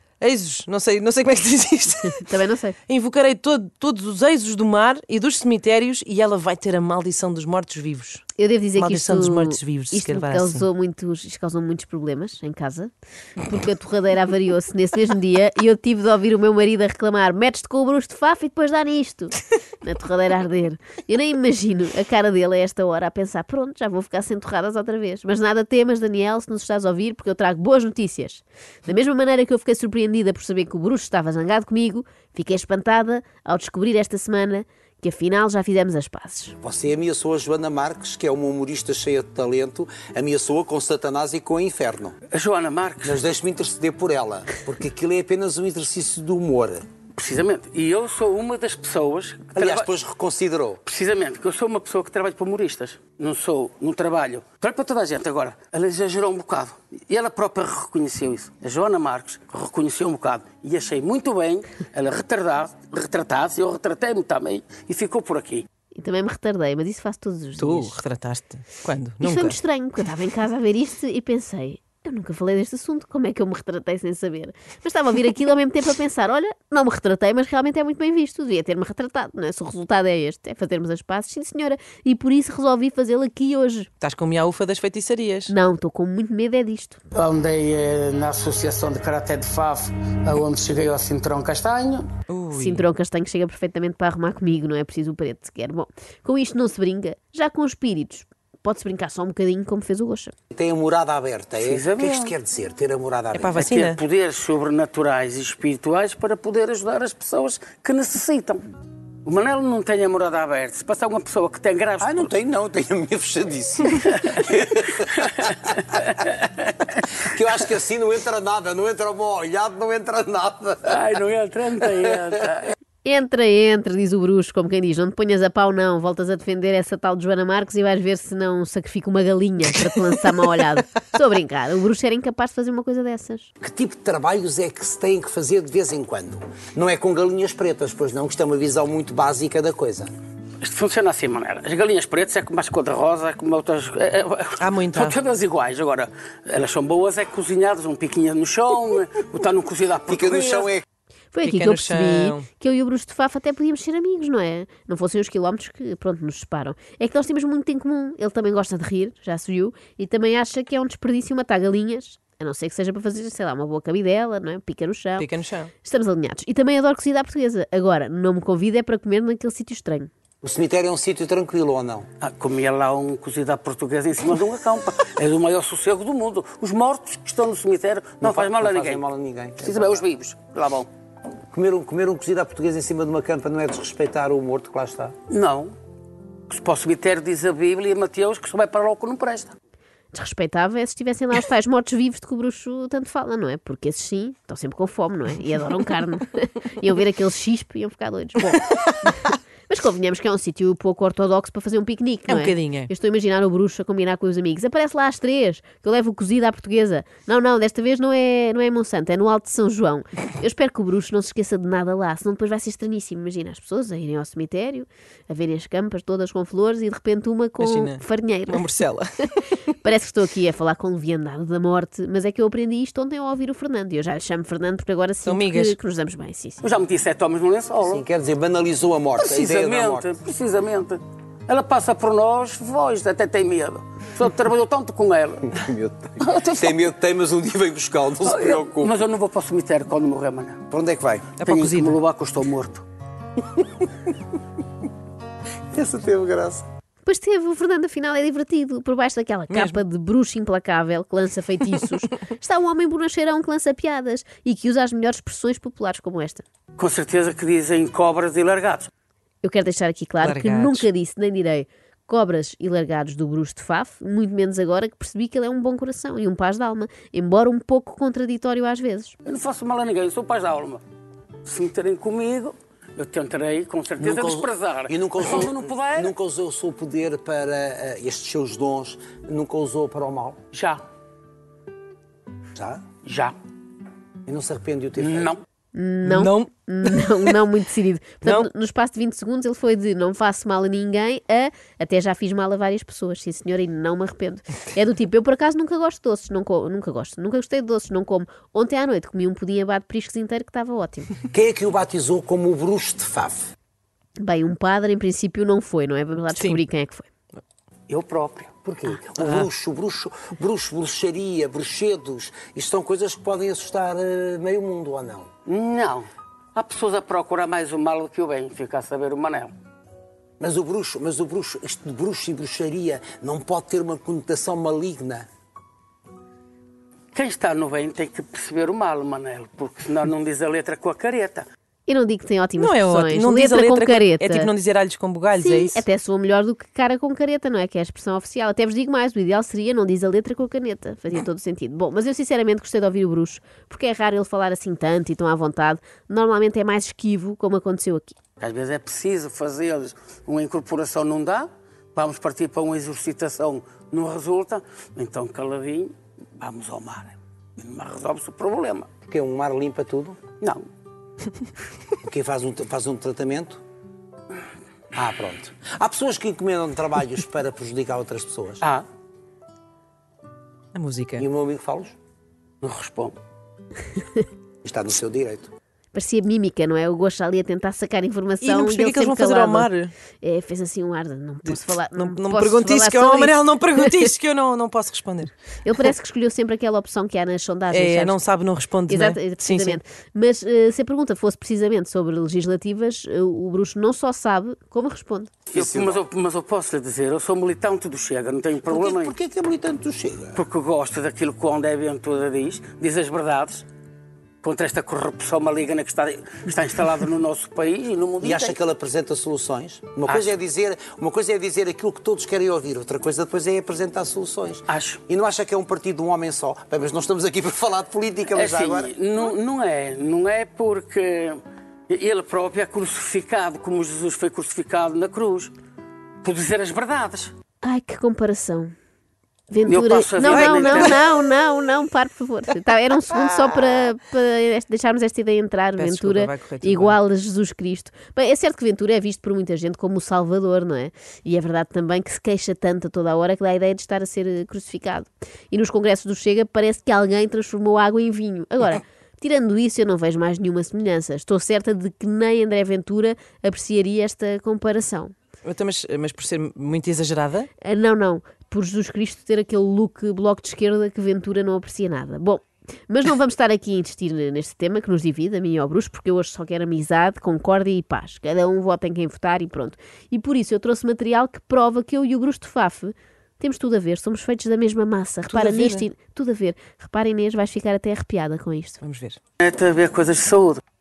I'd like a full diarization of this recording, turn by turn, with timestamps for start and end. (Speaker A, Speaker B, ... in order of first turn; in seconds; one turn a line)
Speaker A: 0.2-2.3
Speaker B: 2.1-2.8
Speaker A: 2.9-8.2
Speaker B: 8.3-36.5
Speaker A: 8.8-10.7
Speaker C: 36.6-42.1
Speaker D: 42.3-43.2
Speaker C: 43.0-46.9
Speaker D: 47.1-49.9
Speaker C: 49.6-50.8
Speaker D: 50.8-65.7
Speaker B: 65.9-68.0
Speaker A: 67.6-69.6
Speaker B: 69.2-83.9
Speaker A: 84.0-85.5
Speaker B: 85.5-87.0
Speaker D: 87.1-92.1
Speaker A: 92.3-92.9
Speaker B: 92.5-100.3
Speaker C: 100.5-103.7
Speaker D: 101.6-102.3
Speaker A: 103.3-104.0
Speaker D: 103.6-108.6
Speaker D: 109.2-112.3
Speaker C: 112.0-115.7
Speaker C: 117.2-121.1
Speaker D: 120.9-122.7
Speaker B: 123.0-133.5
Speaker C: 133.6-140.1
Speaker D: 140.6-150.7
Speaker A: 144.6-145.2
Speaker C: 150.1-150.8
Speaker B: 151.3-165.3
Speaker A: 151.4-152.4
Speaker A: 165.2-165.7
Speaker B: 165.8-170.1
Speaker C: 170.4-172.1
Speaker D: 172.2-179.0
Speaker C: 178.2-180.0
Speaker D: 179.6-180.9
Speaker C: 181.5-185.1
Speaker D: 185.3-185.7
Speaker D: 186.5-189.5
Speaker B: 190.1-218.7
Speaker A: 202.3-202.9
Speaker A: 217.6-219.7
Speaker B: 219.8-226.6
Speaker A: 225.2-225.8
Speaker D: 226.6-228.1
Speaker C: 227.8-230.1
Speaker D: 229.2-235.5
Speaker C: 235.5-238.9
Speaker D: 236.2-236.8
Speaker D: 238.2-240.6
Speaker C: 240.7-241.3
Speaker A: 241.4-242.0
Speaker D: 241.4-242.8
Speaker C: 245.7-246.6
Speaker B: 247.0-256.4
Speaker A: 249.5-249.8
Speaker D: 256.8-258.9
Speaker B: 259.4-269.1
Speaker A: 260.2-260.9
Speaker D: 269.2-270.8
Speaker D: 271.4-276.1
Speaker C: 274.0-280.4
Speaker D: 280.5-280.8
Speaker C: 282.5-282.8
Speaker D: 283.0-283.3
Speaker C: 284.2-285.3
Speaker D: 285.0-285.4
Speaker B: 285.7-301.1
Speaker A: 286.0-287.3
Speaker A: 288.2-288.5
Speaker C: 301.3-303.5
Speaker B: 304.2-307.1
Speaker D: 307.9-308.5
Speaker C: 308.6-315.3
Speaker D: 315.4-319.5
Speaker C: 320.4-325.2
Speaker D: 327.1-331.5
Speaker B: 331.9-334.5
Speaker A: 332.6-335.8
Speaker B: 335.4-348.1
Speaker D: 348.4-358.9
Speaker C: 359.1-360.2
Speaker C: 362.0-363.6
Speaker C: 364.9-368.6
Speaker A: 370.7-371.2
Speaker C: 371.2-371.9
Speaker D: 372.6-373.1
Speaker C: 374.6-375.5
Speaker B: 375.9-384.1
Speaker A: 378.4-379.9
Speaker A: 381.5-385.3
Speaker B: 385.6-388.2
Speaker A: 387.7-389.8
Speaker B: 388.9-395.3
Speaker D: 395.5-399.1
Speaker C: 395.5-396.0
Speaker C: 398.7-400.4
Speaker D: 400.3-403.6
Speaker D: 404.4-408.6
Speaker C: 408.2-418.9
Speaker D: 410.1-410.3
Speaker D: 414.7-415.0
Speaker D: 418.3-425.5
Speaker D: 426.2-427.3
Speaker B: 427.6-428.7
Speaker B: 429.5-455.1
Speaker D: 429.7-431.0
Speaker A: 430.2-430.9
Speaker A: 435.8-437.0
Speaker A: 455.4-457.5
Speaker B: 457.6-478.8
Speaker A: 475.3-475.9
Speaker A: 478.8-479.2
Speaker D: 479.4-480.6